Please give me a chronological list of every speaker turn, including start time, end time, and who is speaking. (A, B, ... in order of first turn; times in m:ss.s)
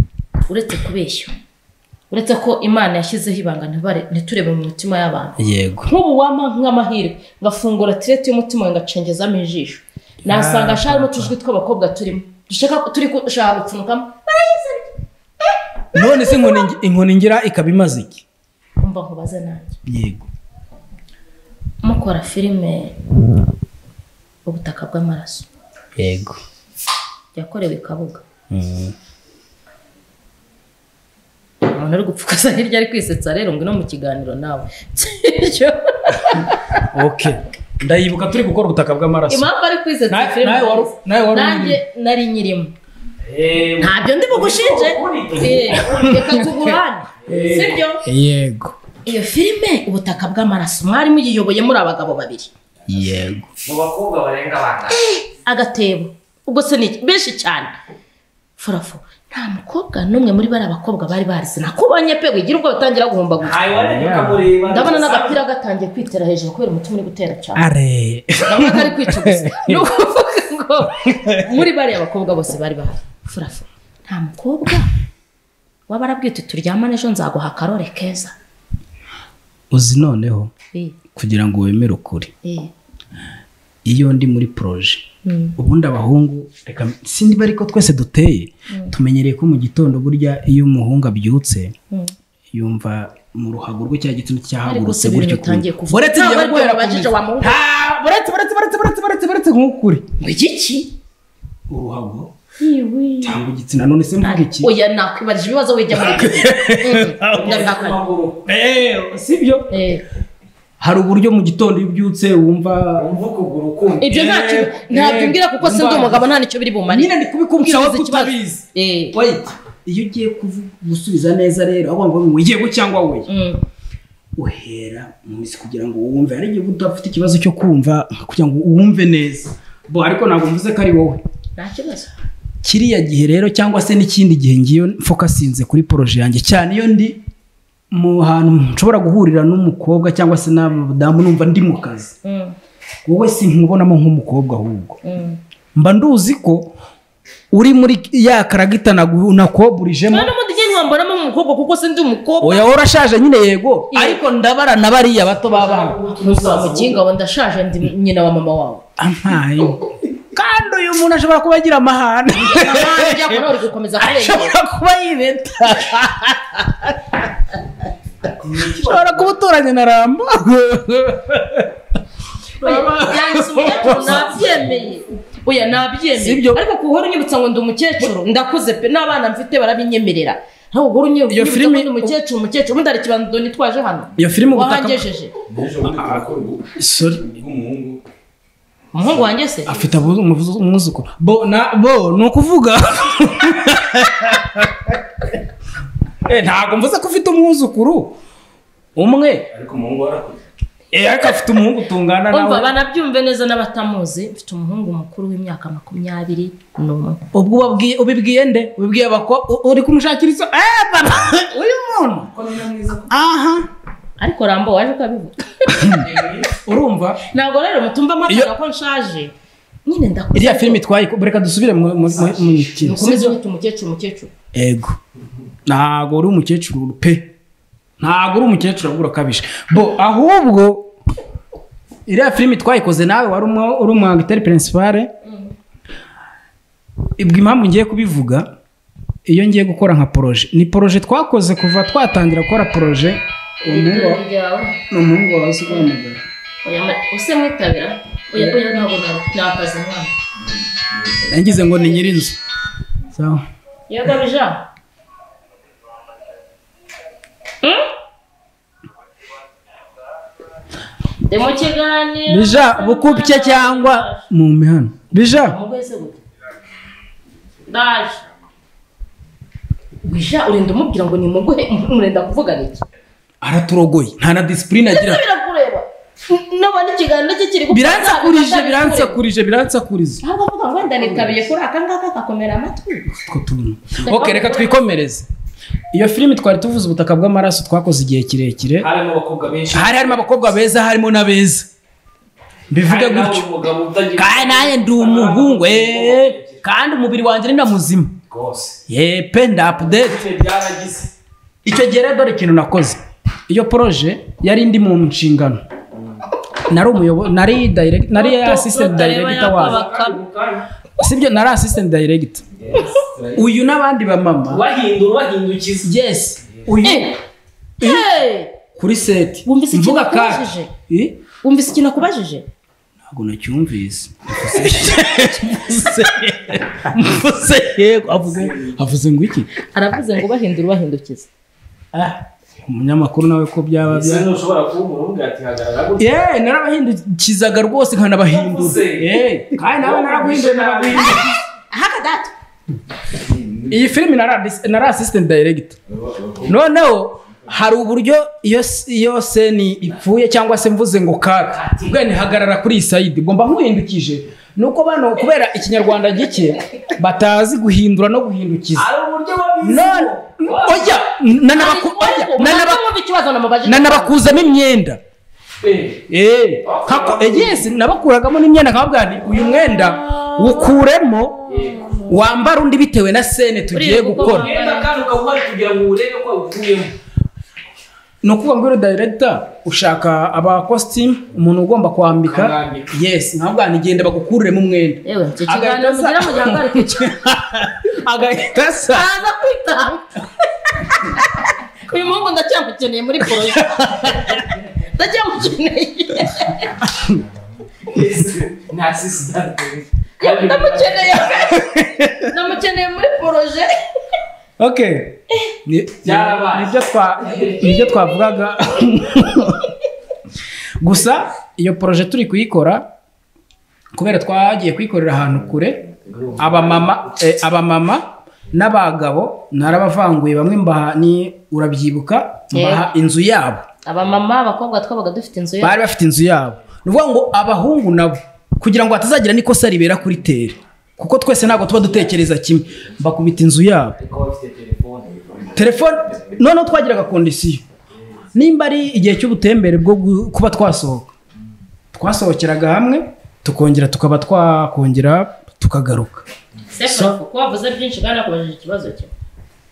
0:00.4-0:01.3 A
0:02.1-0:14.9 A
0:05.4-0:05.9 B
0:10.2-0:11.3 B
0:15.9-0:18.2 B
0:16.0-0:16.6 A
0:18.8-0:19.8 A
0:19.8-0:20.3 B
0:21.8-0:23.0 A
0:24.4-0:25.5 A
0:26.0-0:26.4 B
0:27.3-0:28.2 A
0:28.5-0:28.9 B
0:31.6-0:36.9 A
0:36.9-0:39.5 B
0:39.3-0:42.7 A
0:40.1-0:41.8 B
0:43.2-0:46.1 C
0:43.8-0:48.0 A
0:45.8-0:46.7 B
0:47.2-0:47.8 C
0:48.0-0:48.8 B
0:49.0-0:52.5 A
0:52.9-0:53.5 B
0:53.6-0:55.0 C
0:55.0-0:57.7 A
0:58.6-1:03.6 A
1:03.4-1:05.4 C
1:03.7-1:04.5 B
1:04.6-1:07.6 A
1:07.5-1:09.9 B
1:08.4-1:14.9 A
1:11.1-1:11.5 B
1:15.9-1:18.3 A
1:19.7-1:20.5 B
1:21.1-1:22.3 B
1:22.4-1:22.7 A
1:23.8-1:31.7 B
1:25.2-1:25.6 A
1:32.5-1:40.1 B
1:34.6-1:37.6 A
1:40.2-1:40.9 A
1:41.7-1:42.3 B
1:42.6-1:43.4 A
1:43.2-1:44.7 B
1:44.2-1:48.0 A
1:45.9-1:47.6 B
1:47.3-1:48.4 C
1:48.5-1:49.7 B
1:49.7-1:50.0 A
1:50.8-1:53.1 B
1:53.0-1:54.6 C
1:54.0-1:59.2 A
1:54.1-1:56.3 B
1:56.9-2:03.3 B
2:03.3-2:03.6 A
2:04.4-2:11.2 B
2:11.6-2:12.1 A
2:12.6-2:17.2 B
2:17.9-2:22.1 B
2:22.2-2:22.5 A
2:23.0-2:25.0 B
2:25.0-2:25.4 A
2:25.7-2:26.7 B
2:27.5-2:30.3 B
2:30.1-2:32.7 A
2:32.4-2:36.0 B
2:33.9-2:34.2 A
2:35.6-2:37.0 C
2:36.2-2:38.8 A
2:39.0-2:43.4 B
2:42.4-2:44.6 A
2:44.0-2:47.2 B
2:48.2-2:49.3 C
2:48.6-2:51.7 B
2:52.6-3:05.3 A
2:52.6-2:54.6 B
2:56.2-2:56.6 B
3:01.3-3:02.1 B
3:04.2-3:05.0 B
3:05.5-3:06.7 D
3:05.8-3:06.2 B
3:06.8-3:07.3 B
3:07.2-3:08.0 D
3:08.9-3:09.8 A
3:09.6-3:15.3 B
3:16.2-3:18.2 B
3:19.0-3:19.5 B
3:19.5-3:20.4 D
3:20.9-3:22.7 B
3:22.3-3:27.2 A
3:27.3-3:32.3 B
3:32.4-3:33.0 C
3:33.0-3:33.7 B
3:34.2-3:36.0 A
3:35.7-3:37.2 B
3:36.0-3:36.4 C
3:37.3-3:39.3 A
3:39.8-3:40.8 A
3:40.3-3:43.4 B
3:42.2-3:42.5 C
3:42.8-3:44.3 A
3:44.5-3:45.0 B
3:45.6-3:47.3 B
3:48.0-3:50.9 B
3:52.1-3:55.1 B
3:55.2-3:55.5 A
3:57.2-3:58.5 B
3:59.2-4:04.2 B
4:03.6-4:04.8 A
4:04.9-4:06.2 B
4:06.6-4:10.1 A
4:11.2-4:12.4 B
4:13.1-4:13.4 B
4:13.9-4:14.6 A
4:21.2-4:24.2 A
4:22.3-4:25.6 B
4:25.2-4:26.2 A
4:27.7-4:28.2 A
4:30.0-4:32.8 A
4:33.4-4:35.2 B
4:34.9-4:39.2 A
4:37.7-4:40.2 B
4:40.2-4:43.1 A
4:41.0-4:41.4 C
4:43.2-4:45.3 B
4:44.0-4:44.8 A
4:45.9-4:48.9 B
4:48.8-4:50.2 C
4:49.7-4:51.7 B
4:52.7-4:53.4 B
4:52.8-4:56.6 C
4:54.2-4:58.2 B
4:58.3-4:58.8 C
4:58.9-5:00.2 B
4:59.7-5:01.1 C
5:01.6-5:05.6 B
5:06.6-5:09.8 B
5:08.1-5:10.2 A
5:09.4-5:10.6 C
5:11.0-5:12.4 B
5:12.6-5:13.4 C
5:13.3-5:14.6 B
5:14.5-5:15.9 C
5:15.8-5:17.1 B
5:16.8-5:17.2 A
5:17.8-5:18.5 A
5:18.8-5:21.2 B
5:19.4-5:20.7 A
5:21.4-5:22.4 A
5:23.1-5:29.5 B
5:29.6-5:31.3 A
5:31.9-5:34.3 B
5:33.8-5:36.2 C
5:36.0-5:41.3 B
5:38.2-5:41.2 C
5:41.7-5:42.3 A
5:43.7-5:45.8 B
5:46.3-5:58.9 B
5:51.5-5:52.3 C
5:58.7-6:01.0 C
5:59.6-6:02.8 B
6:01.5-6:04.5 A
6:03.6-6:05.0 B
6:05.6-6:06.0 C
6:06.1-6:11.4 B
6:06.6-6:07.6 C
6:11.5-6:12.0 C
6:12.0-6:14.5 B
6:13.7-6:14.9 A
6:14.2-6:16.9 C
6:18.2-6:29.1 B
6:22.2-6:22.9 C
6:25.0-6:27.2 A
6:28.9-6:36.7 A
6:33.5-6:34.4 B
6:36.8-6:37.2 B
6:37.8-6:41.3 C
6:40.2-6:41.5 A
6:41.3-6:42.3 B
6:42.3-6:43.8 A
6:44.6-6:49.7 B
6:46.0-6:47.7 C
6:50.8-6:52.9 B
6:53.9-7:03.6 B
6:56.1-6:56.8 C
7:02.5-7:02.8 A
7:03.8-7:05.8 A
7:05.6-7:14.0 B
7:14.0-7:15.2 C
7:15.5-7:17.6 B
7:18.3-7:21.1 B
7:21.9-7:26.2 B
7:26.7-7:29.1 A
7:26.8-7:27.2 B